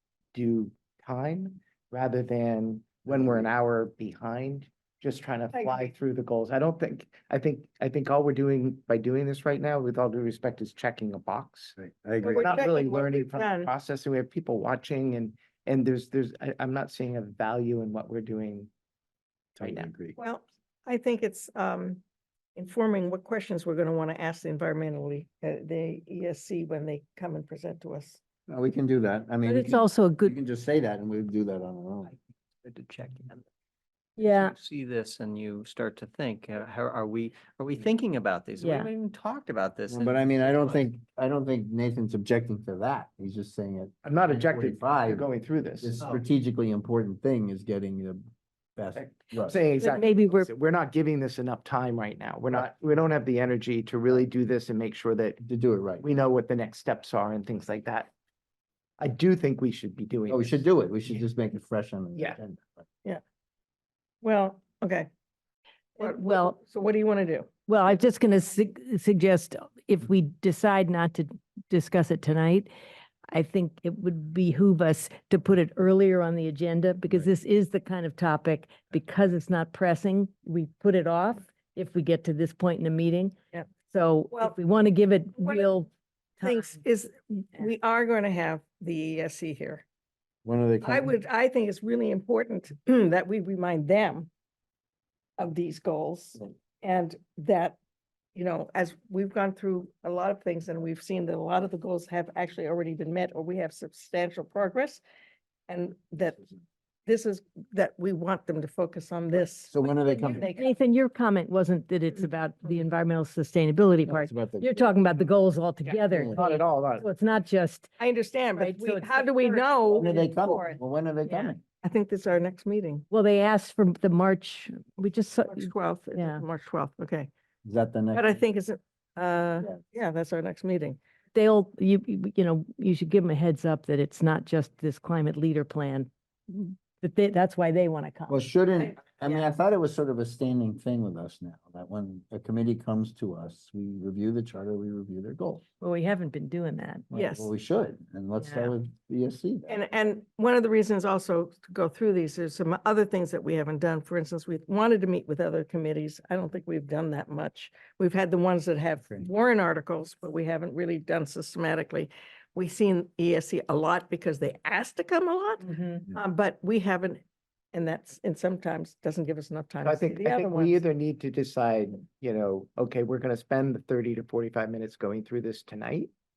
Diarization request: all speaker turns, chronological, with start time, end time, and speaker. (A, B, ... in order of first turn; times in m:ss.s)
0:00.3-0:18.7 A
0:03.1-0:03.5 B
0:05.5-0:05.9 C
0:11.8-0:12.6 B
0:12.2-0:13.7 C
0:19.6-0:20.2 B
0:19.6-0:19.9 A
0:20.2-0:22.0 C
0:22.6-0:28.2 C
0:28.5-0:32.1 B
0:29.4-0:30.3 D
0:32.6-0:33.4 E
0:34.2-0:34.6 D
0:34.6-0:40.8 E
0:38.6-0:38.9 D
0:39.9-0:45.2 B
0:44.0-0:46.0 A
0:45.8-0:48.2 B
0:48.8-0:49.6 B
0:49.0-0:55.4 A
0:49.8-0:50.5 D
0:55.4-0:56.0 B
0:56.0-0:58.1 A
0:59.0-1:01.2 A
1:00.3-1:02.8 B
1:04.2-1:05.1 C
1:06.0-1:07.5 C
1:06.0-1:06.6 D
1:07.7-1:12.7 D
1:13.3-1:23.3 D
1:23.8-1:26.8 D
1:25.4-1:25.7 C
1:26.4-1:29.8 C
1:30.4-1:31.1 B
1:30.8-1:34.3 C
1:35.4-1:37.8 C
1:38.3-1:45.0 C
1:45.7-1:46.4 C
1:47.0-1:50.7 C
1:49.7-1:50.5 B
1:50.3-1:57.9 D
1:54.0-1:54.9 B
1:56.0-1:57.0 A
1:58.0-2:00.8 C
1:58.6-2:00.2 D
1:59.9-2:01.6 B
2:01.8-2:03.0 C
2:03.1-2:06.4 D
2:05.4-2:07.3 C
2:07.6-2:08.4 B
2:08.1-2:11.0 C
2:11.3-2:18.4 D
2:18.3-2:25.6 B
2:25.8-2:27.1 D
2:27.1-2:29.8 B
2:27.1-2:27.5 C
2:28.4-2:28.7 D
2:29.7-2:47.2 C
2:45.6-2:46.0 D
2:47.7-2:50.8 C
2:49.8-2:56.1 A